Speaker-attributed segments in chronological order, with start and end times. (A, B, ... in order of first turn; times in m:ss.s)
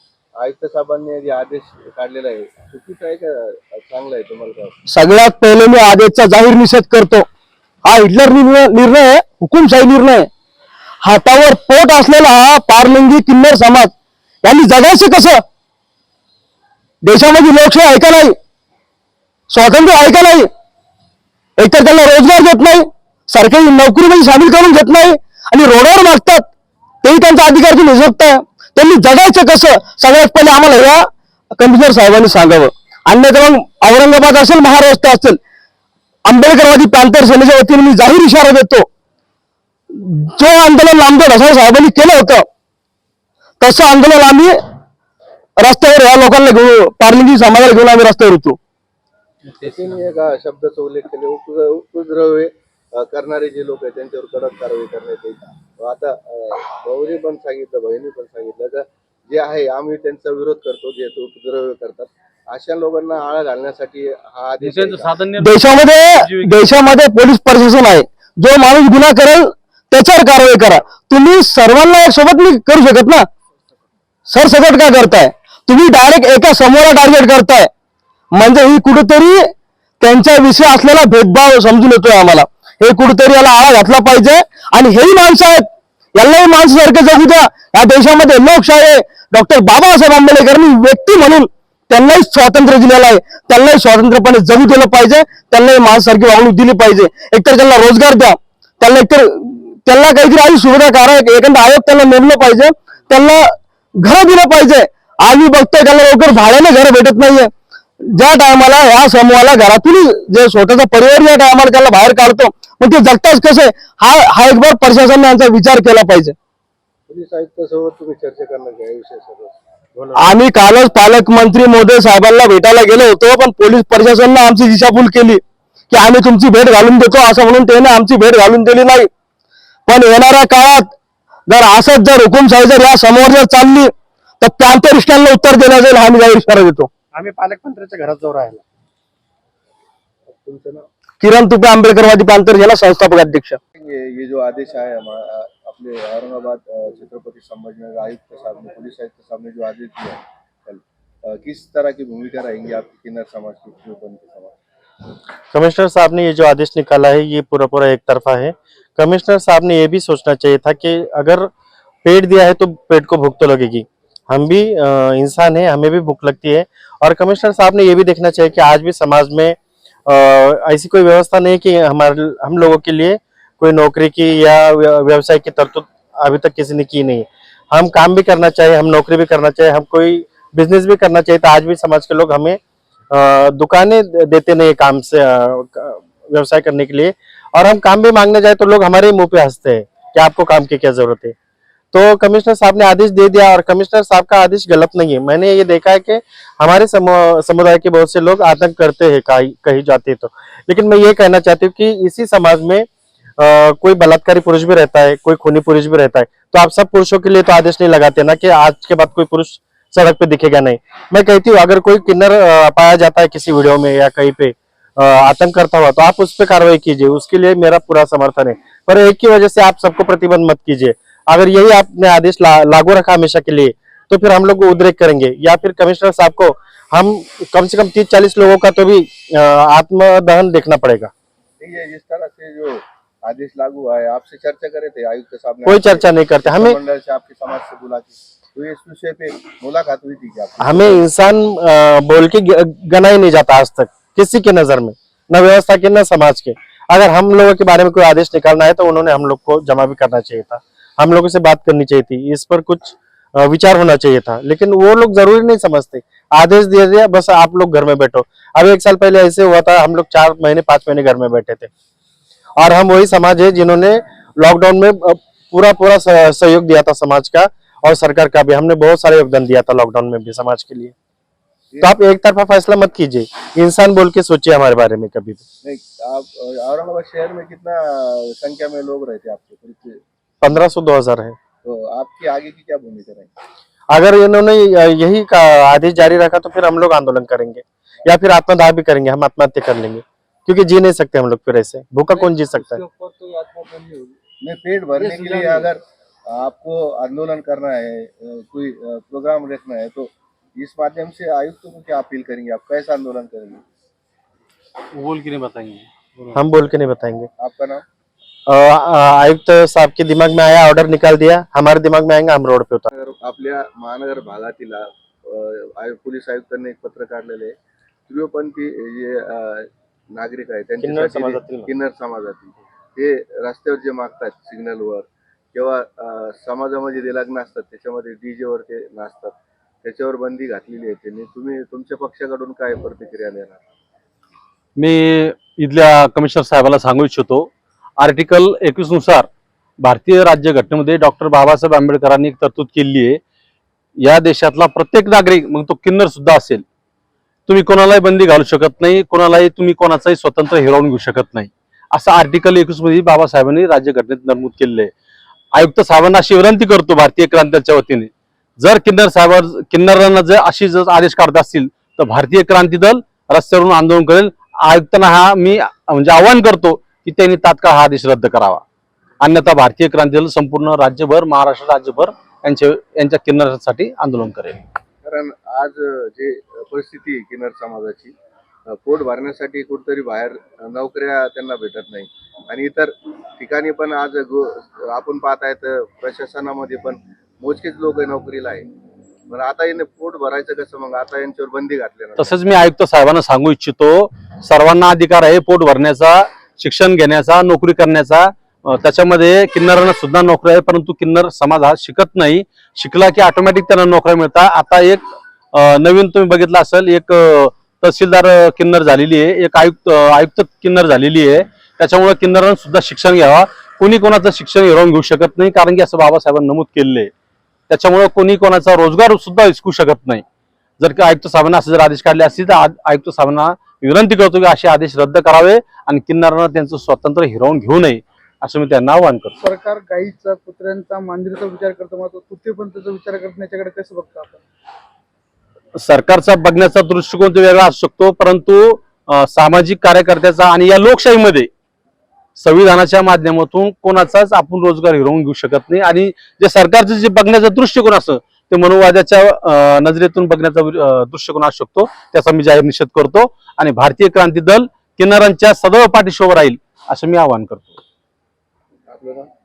0:00.4-0:04.8 A
0:04.9-0:07.2 B
0:07.9-0:10.3 B
0:11.0-0:13.9 B
0:14.4-0:15.4 B
0:17.1-0:18.3 B
0:19.5-0:20.5 B
0:21.6-0:26.4 B
0:27.0-0:31.0 B
0:31.6-0:35.4 B
0:36.3-0:38.9 B
0:39.9-0:42.4 B
0:43.6-0:44.6 B
0:45.6-0:48.6 B
0:49.6-1:05.2 A
1:04.6-1:06.8 C
1:05.4-1:13.3 B
1:14.3-1:17.7 B
1:18.4-1:19.4 B
1:20.0-1:25.6 B
1:26.2-1:43.4 B
1:44.0-1:47.5 B
1:48.1-1:56.4 B
1:57.1-2:00.1 A
2:00.2-2:09.1 B
2:09.9-2:10.9 B
2:11.5-2:16.9 B
2:17.1-2:18.6 D
2:20.3-2:20.9 A
2:21.2-2:23.6 B
2:23.8-2:34.6 A
2:35.5-2:41.5 D
2:42.0-3:02.6 D
3:03.1-3:11.4 D
3:11.9-3:22.9 D
3:23.4-3:51.1 D
3:51.6-4:01.0 A
3:55.7-3:56.8 D
4:00.6-4:21.7 D
4:22.6-4:30.9 D
4:31.8-4:35.4 D
4:35.6-4:40.0 A
4:40.4-4:41.4 D
4:41.6-4:43.3 A
4:43.9-4:52.8 D
4:52.1-4:54.2 E
4:54.4-5:03.6 A
4:55.0-4:55.7 E
5:04.9-5:06.4 C
5:06.3-5:07.3 D
5:07.4-5:07.8 A
5:08.5-5:12.9 D
5:12.9-5:17.6 A
5:18.1-5:29.3 A
5:20.8-5:21.7 D
5:29.8-5:33.6 A
5:34.8-5:39.3 C
5:39.8-5:43.2 C
5:44.0-5:46.6 C
5:47.5-5:54.9 C
5:55.6-6:08.6 C
6:09.2-6:14.6 C
6:15.0-6:18.1 A
6:18.7-6:28.7 A
6:29.3-6:32.4 A
6:32.2-6:57.1 C
6:57.7-7:00.2 C
7:00.8-7:09.4 C
7:09.4-7:14.4 E
7:15.8-7:21.5 C
7:22.4-7:37.8 C
7:38.9-7:39.3 A